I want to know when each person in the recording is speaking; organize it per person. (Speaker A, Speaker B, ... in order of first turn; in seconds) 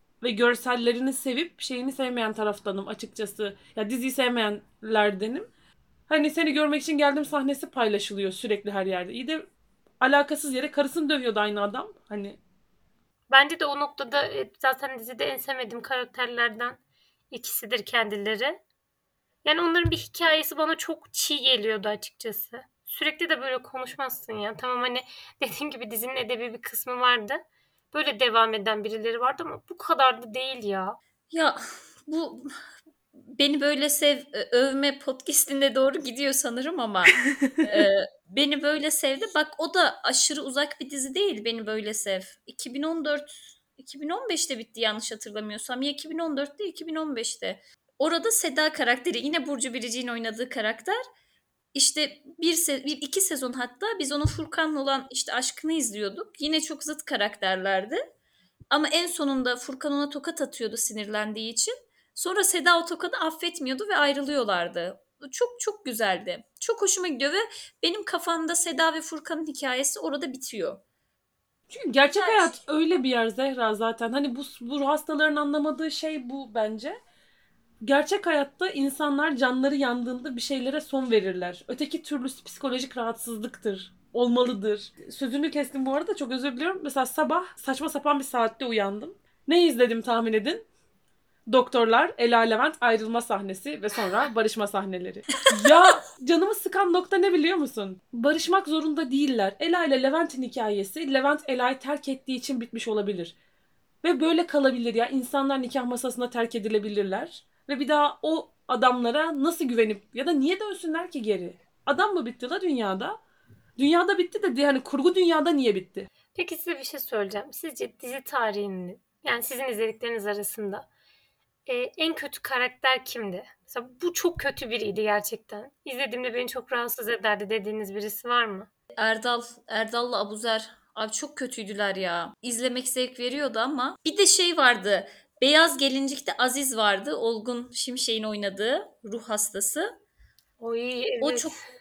Speaker A: 0.2-5.5, 6.1-9.4, 10.0-12.4, 37.4-37.9, 71.7-77.0, 77.8-90.7, 91.5-103.3, 104.0-113.2, 113.8-116.1
Speaker B: 13.3-16.8, 17.3-18.6, 19.4-31.0, 116.3-120.9, 121.7-128.7, 140.6-141.6
Speaker C: 31.3-32.5, 33.3-51.0, 51.7-58.0, 58.7-70.8, 72.1-72.6, 95.5-95.9, 129.0-139.9, 141.2-141.6